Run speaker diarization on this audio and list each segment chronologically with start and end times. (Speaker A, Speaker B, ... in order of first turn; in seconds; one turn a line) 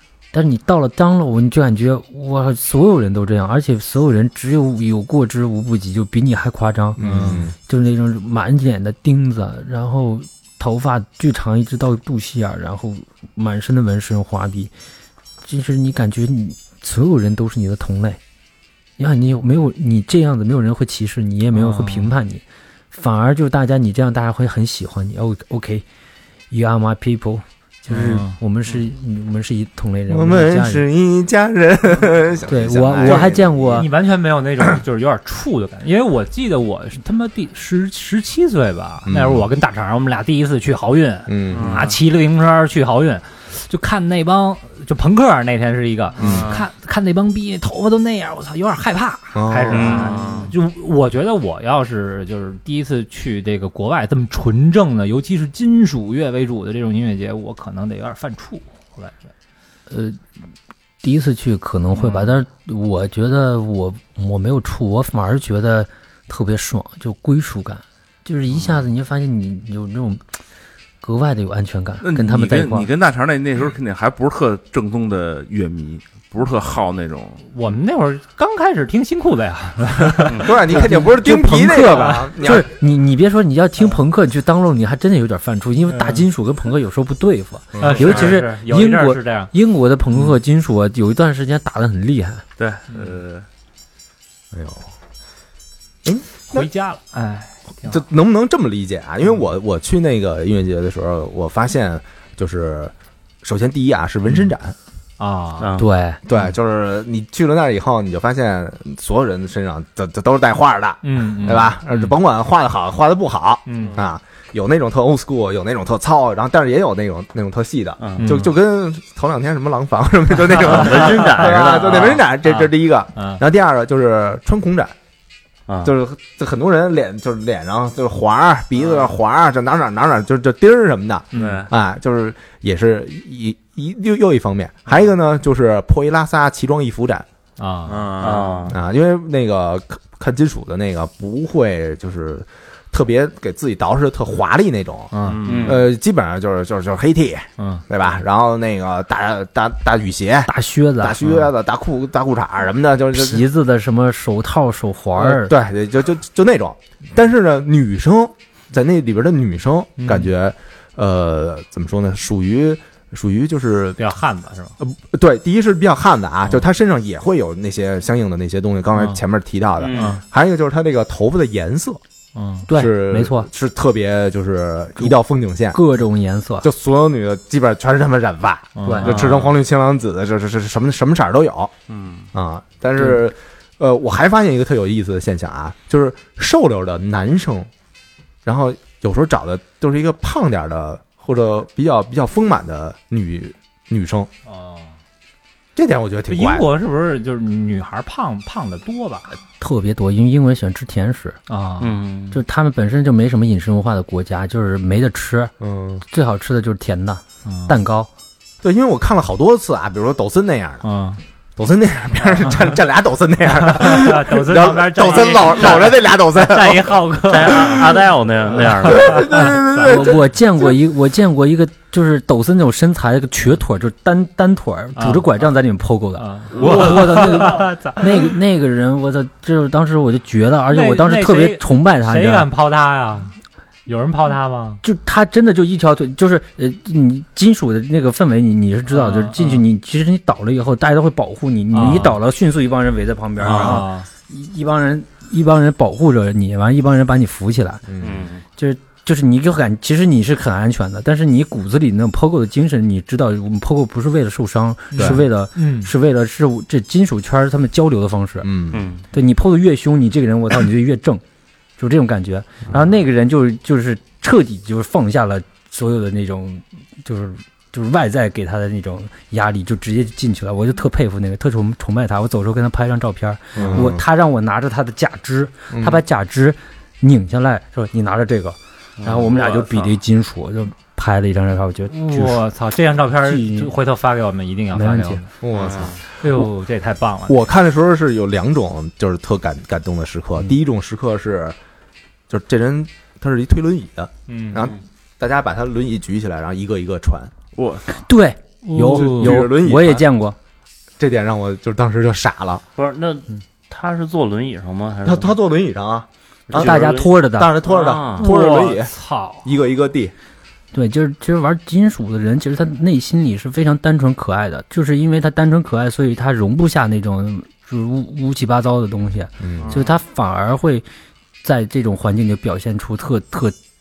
Speaker A: 0.3-14.7
Speaker B: 7.0-7.5
Speaker C: 7.0-7.5
Speaker A: 15.4-18.2
Speaker A: 19.0-25.9
Speaker C: 21.5-22.1
Speaker A: 26.5-30.9
Speaker C: 27.9-28.4
Speaker B: 30.1-33.9
Speaker A: 32.5-33.9
Speaker C: 33.0-59.3
Speaker B: 39.1-39.5
Speaker B: 41.3-41.8
Speaker D: 41.5-41.9
Speaker D: 46.2-46.6
Speaker B: 46.2-46.5
Speaker B: 49.3-50.0
Speaker E: 49.7-50.5
Speaker D: 49.8-50.5
Speaker A: 59.9-60.2
Speaker A: 61.0-70.2
Speaker C: 62.0-62.3
Speaker A: 71.0-72.9
Speaker D: 72.0-77.4
Speaker C: 77.5-80.8
Speaker B: 80.4-82.7
Speaker A: 80.7-92.5
Speaker C: 85.9-86.2
Speaker B: 87.8-88.1
Speaker C: 87.8-89.5
Speaker D: 92.6-93.5
Speaker C: 92.9-93.2
Speaker B: 94.5-94.9
Speaker B: 96.0-96.7
Speaker C: 96.5-98.0
Speaker B: 97.9-102.9
Speaker B: 103.4-104.8
Speaker C: 105.2-105.8
Speaker E: 105.6-105.9
Speaker A: 105.8-106.2
Speaker B: 106.3-124.9
Speaker C: 111.0-111.8
Speaker C: 113.7-114.0
Speaker E: 118.0-118.3
Speaker C: 118.2-118.5
Speaker E: 120.5-122.2
Speaker C: 120.5-123.4
Speaker B: 125.8-137.3
Speaker C: 131.3-131.7
Speaker E: 131.3-131.7
Speaker C: 137.6-138.1
Speaker D: 137.9-138.7
Speaker E: 138.2-138.8
Speaker B: 138.7-153.5
Speaker C: 145.1-145.7
Speaker D: 145.2-145.8
Speaker E: 145.5-145.8
Speaker C: 147.6-147.8
Speaker A: 150.5-151.2
Speaker A: 153.1-155.6
Speaker B: 155.2-164.1
Speaker C: 160.0-160.3
Speaker C: 164.0-164.8
Speaker B: 164.8-172.0
Speaker C: 169.0-169.2
Speaker E: 169.8-170.1
Speaker C: 169.9-170.2
Speaker C: 172.3-172.7
Speaker A: 172.7-173.5
Speaker B: 172.7-175.8
Speaker A: 175.7-176.7
Speaker B: 176.6-181.7
Speaker C: 178.8-179.2
Speaker E: 179.0-179.5
Speaker D: 181.9-182.3
Speaker B: 182.3-187.7
Speaker A: 183.0-183.2
Speaker B: 188.4-194.3
Speaker C: 194.5-194.9
Speaker B: 195.8-196.7
Speaker C: 196.3-199.4
Speaker A: 199.6-201.4
Speaker C: 201.5-201.9
Speaker E: 201.8-202.4
Speaker A: 202.3-205.6
Speaker B: 205.6-206.0
Speaker A: 206.1-208.1
Speaker C: 207.4-207.8
Speaker B: 208.6-210.8
Speaker C: 210.8-211.2
Speaker B: 211.6-217.0
Speaker C: 213.6-220.0
Speaker E: 217.3-219.6
Speaker B: 218.8-220.2
Speaker A: 219.7-232.5
Speaker C: 225.0-225.3
Speaker C: 226.2-228.3
Speaker C: 230.7-233.3
Speaker C: 233.9-234.8
Speaker A: 234.8-247.8
Speaker C: 238.9-239.6
Speaker C: 241.7-242.2
Speaker C: 243.4-244.1
Speaker B: 247.9-248.3
Speaker E: 248.0-248.4
Speaker A: 248.6-258.5
Speaker C: 254.9-255.9
Speaker B: 254.9-255.2
Speaker B: 258.4-258.9
Speaker E: 258.7-259.0
Speaker A: 259.1-261.2
Speaker A: 261.8-282.4
Speaker B: 273.6-274.0
Speaker B: 275.7-276.0
Speaker E: 279.0-279.6
Speaker C: 281.9-285.3
Speaker A: 283.2-283.7
Speaker A: 284.7-285.2
Speaker B: 285.4-286.5
Speaker E: 285.5-286.0
Speaker C: 286.2-287.4
Speaker B: 287.3-291.6
Speaker B: 292.3-297.3
Speaker C: 294.3-294.7
Speaker D: 297.6-298.0
Speaker A: 298.0-300.4
Speaker C: 298.6-299.5
Speaker B: 298.8-300.1
Speaker B: 301.0-302.6
Speaker E: 302.8-305.4
Speaker B: 305.1-310.1
Speaker E: 306.5-308.3
Speaker A: 306.5-307.6
Speaker C: 308.2-309.5
Speaker A: 310.7-320.9
Speaker B: 319.4-319.8
Speaker A: 321.4-323.6